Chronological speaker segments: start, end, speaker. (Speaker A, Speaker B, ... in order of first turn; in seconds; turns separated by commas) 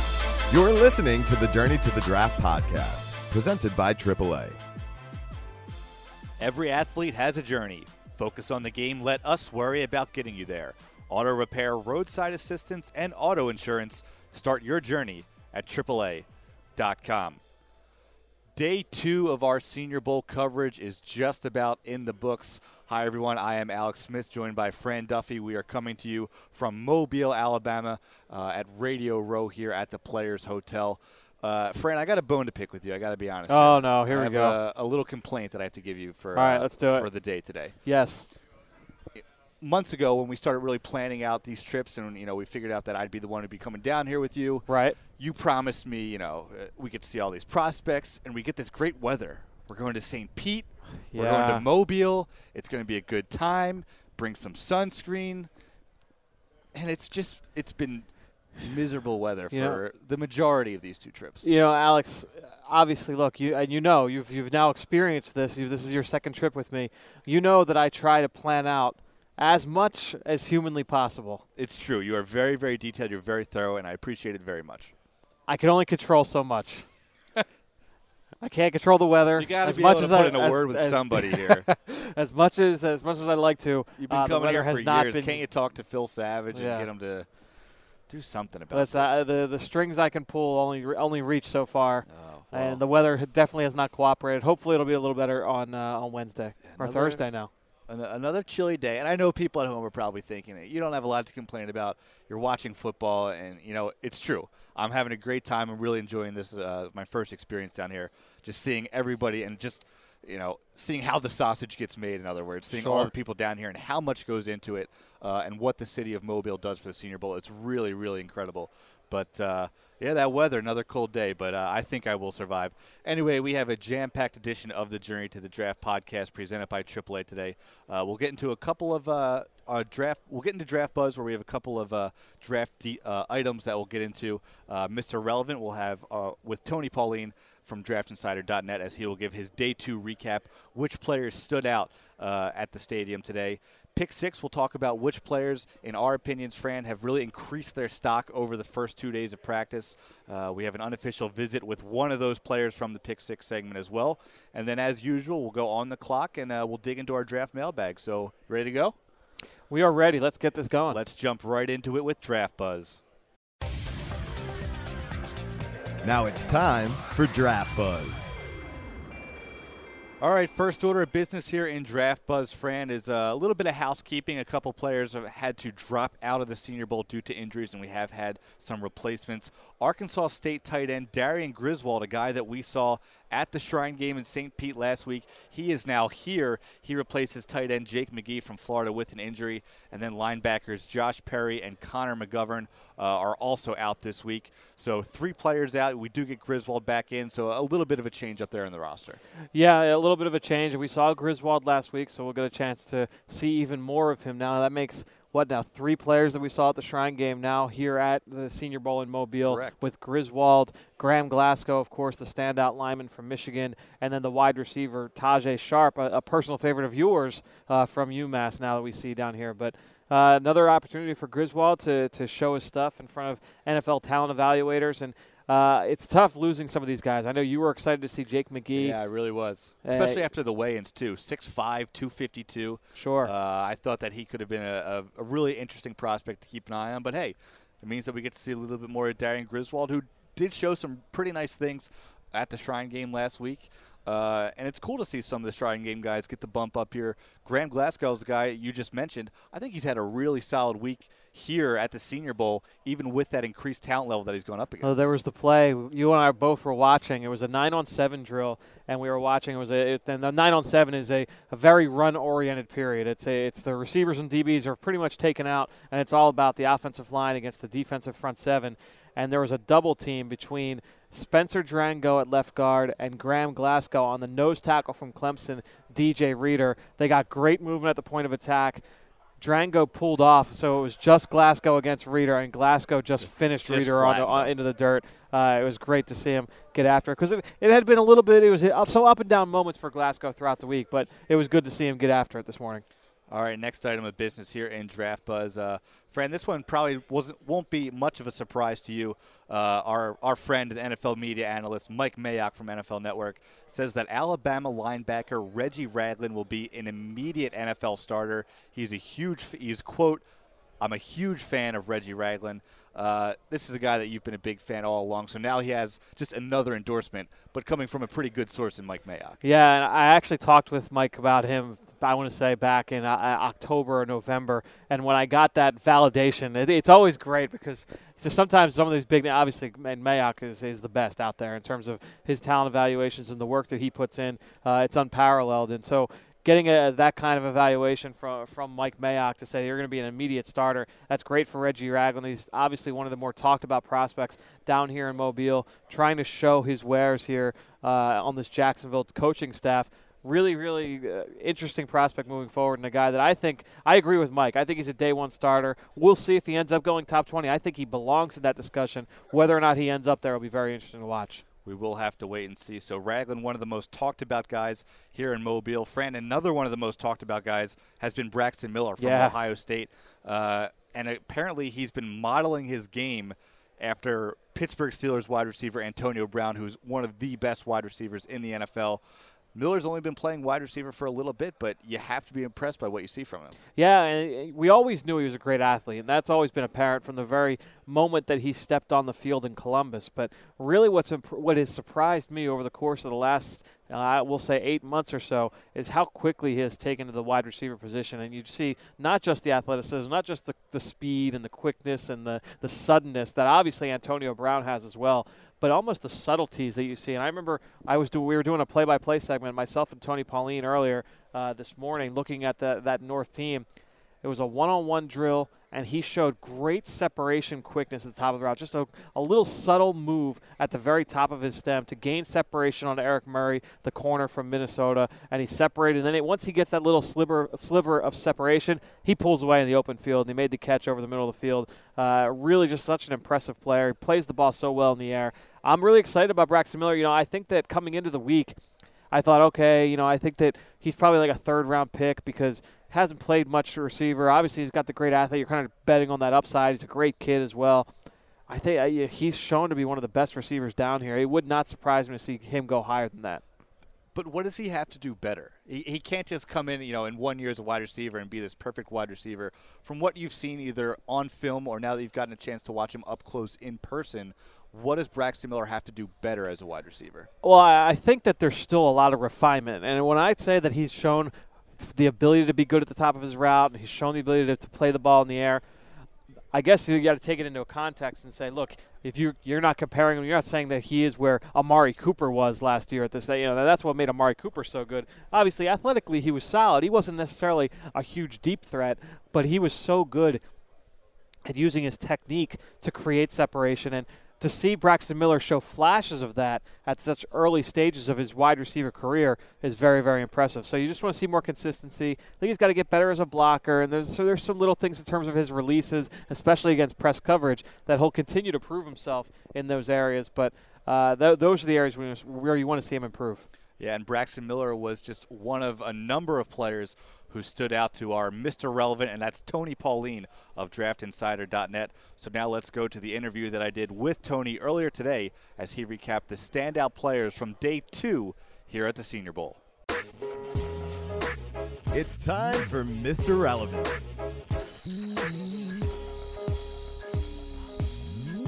Speaker A: 0.5-4.6, Speaker B: 6.4-17.4, Speaker B: 18.5-37.7, Speaker C: 33.5-34.6, Speaker C: 36.3-37.1, Speaker C: 37.8-38.3, Speaker B: 39.1-55.5, Speaker C: 44.7-45.0, Speaker C: 51.1-51.6, Speaker B: 56.7-61.5, Speaker C: 59.5-59.8, Speaker C: 61.4-71.4, Speaker B: 71.6-74.9, Speaker C: 75.5-76.9, Speaker C: 78.4-85.4, Speaker B: 79.3-81.7, Speaker B: 84.0-87.3, Speaker C: 86.5-86.9, Speaker B: 88.1-89.2, Speaker C: 88.7-97.5, Speaker B: 92.1-92.8, Speaker B: 96.7-97.2, Speaker B: 97.9-158.9, Speaker C: 112.7-113.1, Speaker C: 159.7-161.0, Speaker B: 160.9-163.0, Speaker A: 166.0-168.3, Speaker B: 170.2-199.2, Speaker C: 199.5-229.0, Speaker B: 209.4-209.8, Speaker B: 228.7-255.1, Speaker C: 229.8-230.2, Speaker C: 232.9-233.3, Speaker C: 254.8-278.8, Speaker C: 279.4-292.8, Speaker B: 283.2-284.5, Speaker B: 293.3-310.2, Speaker B: 310.8-319.4, Speaker C: 319.4-361.4, Speaker B: 361.6-379.0, Speaker C: 369.0-369.4, Speaker B: 379.5-383.6, Speaker C: 383.8-413.6, Speaker C: 414.2-438.6, Speaker C: 439.1-447.9, Speaker C: 448.5-453.4, Speaker B: 454.1-467.3, Speaker C: 467.4-475.6, Speaker C: 476.5-490.4, Speaker C: 491.4-513.5, Speaker B: 513.8-529.6, Speaker A: 531.9-534.0